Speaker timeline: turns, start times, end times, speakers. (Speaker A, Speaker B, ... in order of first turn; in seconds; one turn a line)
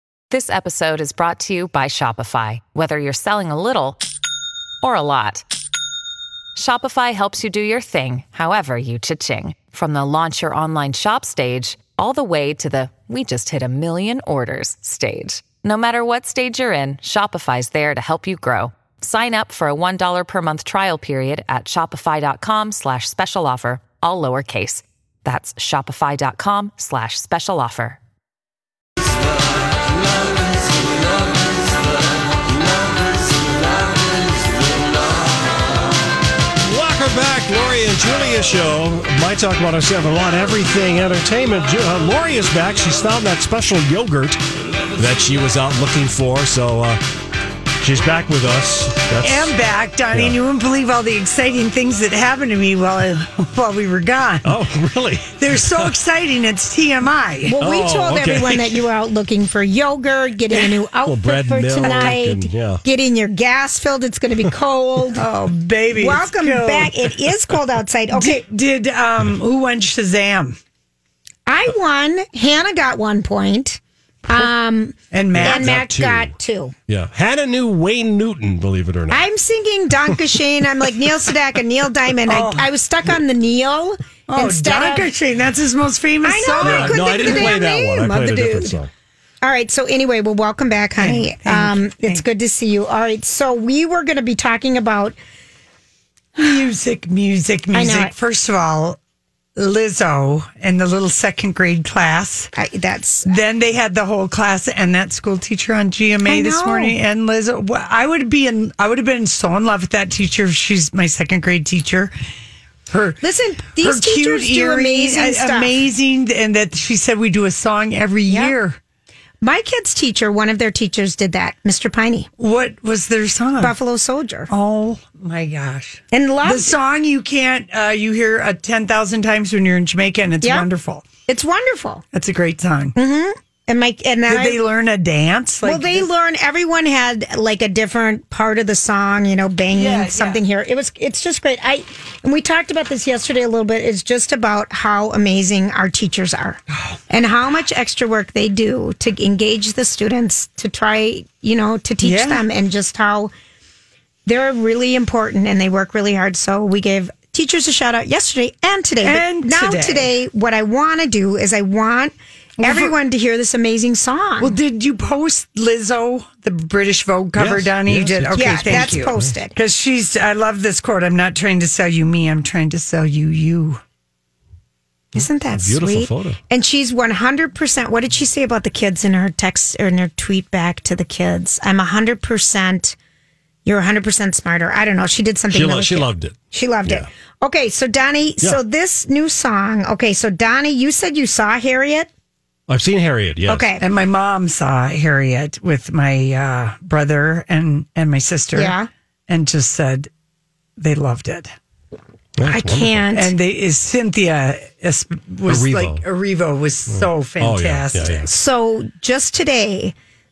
Speaker A: 0.3-4.0
Speaker A: 4.8-5.4
Speaker A: 6.5-28.0
Speaker B: 36.6-44.4
Speaker B: 45.0-47.0
Speaker B: 47.8-49.5
Speaker C: 49.2-54.5
Speaker B: 54.4-55.4
Speaker C: 55.4-57.5
Speaker D: 57.5-65.3
Speaker B: 57.6-58.8
Speaker B: 61.0-62.8
Speaker C: 61.8-62.1
Speaker C: 65.1-66.9
Speaker D: 66.0-68.4
Speaker C: 68.1-70.6
Speaker D: 71.5-76.7
Speaker C: 75.1-75.7
Speaker B: 75.3-76.3
Speaker B: 76.9-79.2
Speaker D: 79.1-85.1
Speaker C: 82.3-82.7
Speaker C: 84.3-88.7
Speaker D: 86.2-88.1
Speaker B: 86.6-88.9
Speaker D: 89.4-95.2
Speaker C: 91.0-92.2
Speaker C: 96.3-99.0
Speaker D: 97.7-98.1
Speaker C: 99.5-102.5
Speaker D: 102.5-103.3
Speaker C: 103.2-112.1
Speaker D: 106.2-106.9
Speaker C: 112.9-113.2
Speaker D: 113.2-115.7
Speaker C: 113.8-118.8
Speaker D: 118.3-118.5
Speaker D: 119.4-122.3
Speaker C: 122.4-123.7
Speaker D: 123.6-124.5
Speaker C: 124.5-131.0
Speaker D: 126.1-126.7
Speaker D: 130.4-130.7
Speaker D: 131.3-132.0
Speaker C: 132.1-132.9
Speaker D: 132.9-134.6
Speaker C: 134.3-136.1
Speaker D: 135.6-153.3
Speaker C: 139.7-140.4
Speaker C: 152.0-152.4
Speaker D: 154.2-164.6
Speaker C: 159.0-160.1
Speaker C: 162.6-162.9
Speaker C: 164.4-173.8
Speaker B: 167.3-169.3
Speaker D: 168.3-169.5
Speaker B: 175.1-176.4
Speaker D: 175.2-182.9
Speaker D: 183.6-192.1
Speaker B: 185.5-187.1
Speaker B: 192.7-193.7
Speaker D: 193.5-193.8
Speaker C: 193.8-198.7
Speaker D: 198.6-198.9
Speaker C: 199.3-200.1
Speaker C: 200.8-201.5
Speaker B: 202.4-203.1
Speaker D: 202.4-203.3
Speaker C: 203.1-208.2
Speaker B: 205.5-206.0
Speaker B: 206.9-208.4
Speaker D: 208.3-209.9